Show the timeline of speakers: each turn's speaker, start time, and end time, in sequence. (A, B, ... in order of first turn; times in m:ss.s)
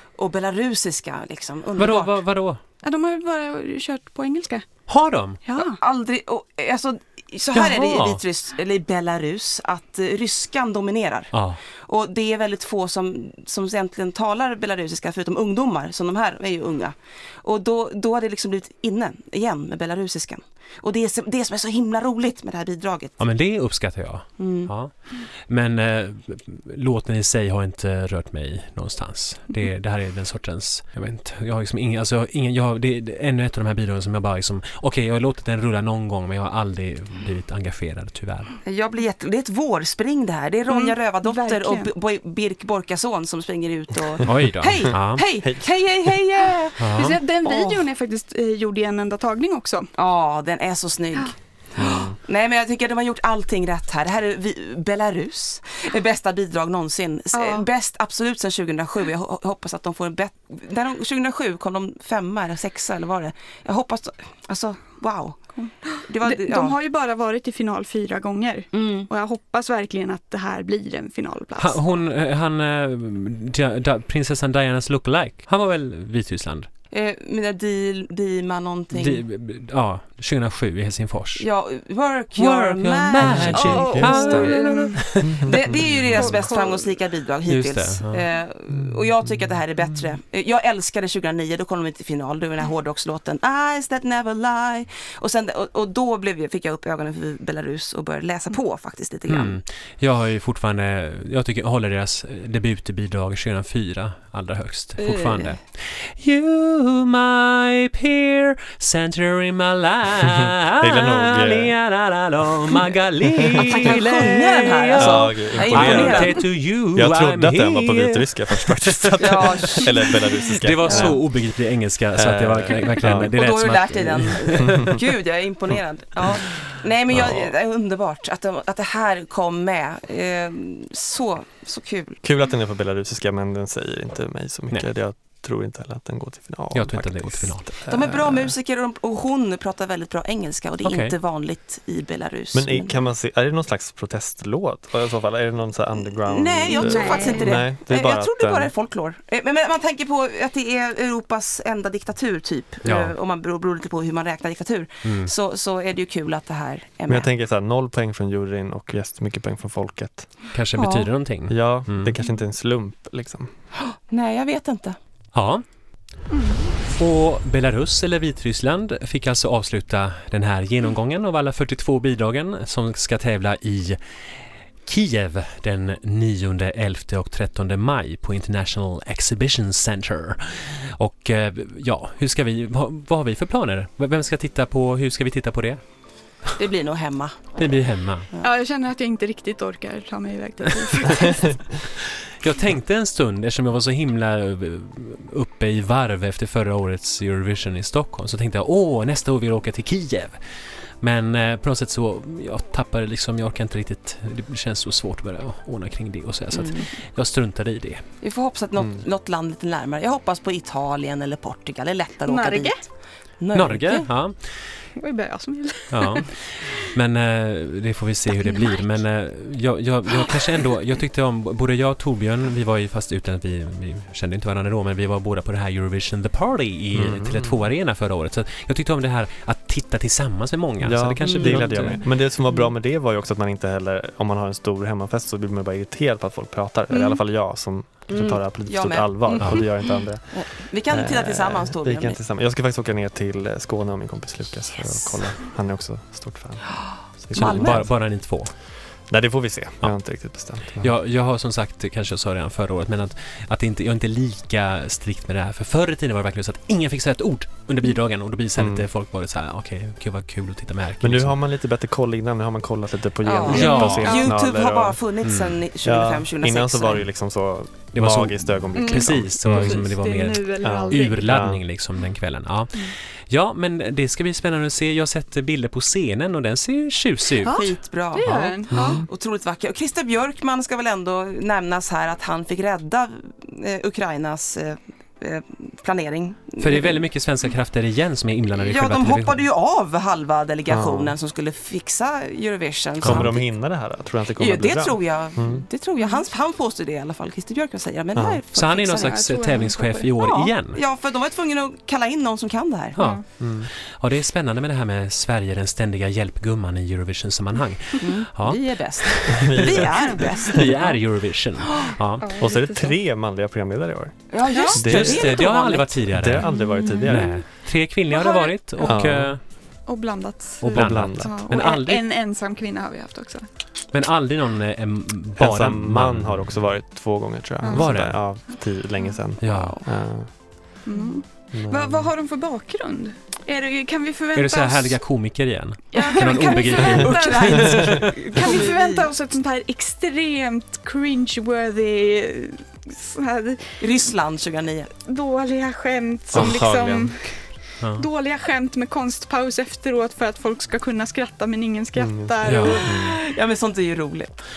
0:00.2-0:02.2 A
0:01.8-0:02.6 B
0:02.8-0:04.7 C
0:04.9-0:05.4 B
0:05.4-0:05.8 C
0:05.6-0:11.3 A
0:07.5-0:08.2 B
0:11.3-0:11.6 B
0:11.8-0:23.2 A
0:23.2-0:38.6 B
0:24.4-0:24.7 A
0:38.6-0:47.8 A
0:40.7-0:41.9 C
0:44.2-0:45.3 B
0:46.8-0:47.2 B
0:46.9-0:49.9 C
0:50.0-1:06.8 A
0:51.8-0:52.2 D
0:57.3-0:57.7 C
1:05.5-1:11.8 C
1:08.7-1:09.1 A
1:11.6-1:16.7 B
1:16.9-1:19.2 A
1:18.9-1:21.4 B
1:21.4-1:39.6 A
1:22.4-1:25.4 B
1:23.2-1:24.5 D
1:23.5-1:25.1 C
1:25.2-1:26.4 D
1:26.1-1:26.9 C
1:27.5-1:28.2 B
1:39.3-2:05.0 B
1:45.0-1:45.6 A
1:50.8-1:51.8 D
1:53.6-1:56.4 A
1:54.9-2:01.3 D
1:59.2-2:00.1 A
2:00.8-2:01.1 A
2:02.1-2:03.3 D
2:03.1-2:12.2 A
2:07.1-2:07.5 D
2:12.2-2:18.6 D
2:16.7-2:17.7 B
2:17.9-2:22.9 A
2:20.8-2:21.2 B
2:22.5-2:28.7 D
2:26.2-2:37.3 A
2:26.7-2:27.6 C
2:32.8-2:33.1 B
2:35.0-2:35.3 B
2:37.1-2:40.3 D
2:40.5-2:42.1 B
2:40.7-2:41.1 A
2:41.5-2:43.5 D
2:43.8-2:45.0 A
2:45.3-2:45.6 B
2:46.3-2:46.7 C
2:47.0-2:54.0 B
2:54.9-3:05.8 B
3:06.6-3:07.4 A
3:07.6-3:08.3 B
3:08.4-3:11.7 C
3:12.4-3:20.4 B
3:21.0-3:28.0 B
3:26.5-3:26.9 A
3:28.2-3:32.8 A
3:32.3-3:32.8 C
3:33.4-3:34.1 A
3:33.5-3:34.6 B
3:35.0-3:36.3 C
3:35.9-3:52.0 B
3:46.9-3:47.6 D
3:50.8-4:07.9 D
3:51.2-3:52.0 A
3:56.9-3:57.2 C
3:58.1-3:59.7 A
4:00.3-4:02.2 A
4:07.3-4:08.5 B
4:07.3-4:07.9 A
4:09.1-4:10.9 D
4:10.8-4:21.4 B
4:18.6-4:18.9 D
4:21.0-4:25.0 D
4:23.2-4:27.1 A
4:23.4-4:24.3 B
4:23.5-4:24.3 C
4:25.2-4:25.6 B
4:25.8-4:29.9 D
4:27.9-4:38.6 B
4:28.7-4:31.4 C
4:30.6-4:31.6 D
4:37.4-4:39.0 C
4:37.5-4:47.0 A
4:38.7-4:39.1 D
4:46.6-4:49.4 B
4:48.6-4:53.5 A
4:50.7-4:51.1 D
4:53.0-4:55.6 D
4:53.0-4:53.3 B
4:54.4-4:59.2 A
4:58.1-4:58.4 D
4:58.5-5:00.8 B
4:59.0-5:00.5 C
5:00.7-5:03.0 A
5:03.0-5:12.3 B
5:03.0-5:03.2 C
5:03.4-5:03.7 D
5:08.0-5:10.9 A
5:09.3-5:09.8 D
5:09.9-5:10.2 C
5:12.2-5:13.0 C
5:12.3-5:15.4 D
5:14.3-5:16.0 A
5:14.5-5:14.8 C
5:14.8-5:16.5 B
5:16.1-5:17.4 D
5:16.4-5:17.4 C
5:17.0-5:19.4 B
5:18.1-5:19.0 C
5:18.8-5:19.3 D
5:19.9-5:23.4 C
5:20.6-5:21.4 D
5:20.6-5:22.0 B
5:23.9-5:26.5 B
5:25.4-5:30.3 D
5:27.6-5:27.9 C
5:27.7-5:28.2 B
5:29.4-5:29.8 B
5:29.4-5:29.9 A
5:30.9-5:35.0 C
5:31.5-5:32.1 D
5:34.4-5:38.6 B
5:35.9-5:43.8 C
5:36.0-5:39.1 A
5:43.8-5:44.9 A
5:45.0-5:52.9 C
5:46.3-5:47.3 D
5:52.0-5:53.2 D
5:52.4-5:52.9 B
5:52.7-5:54.3 A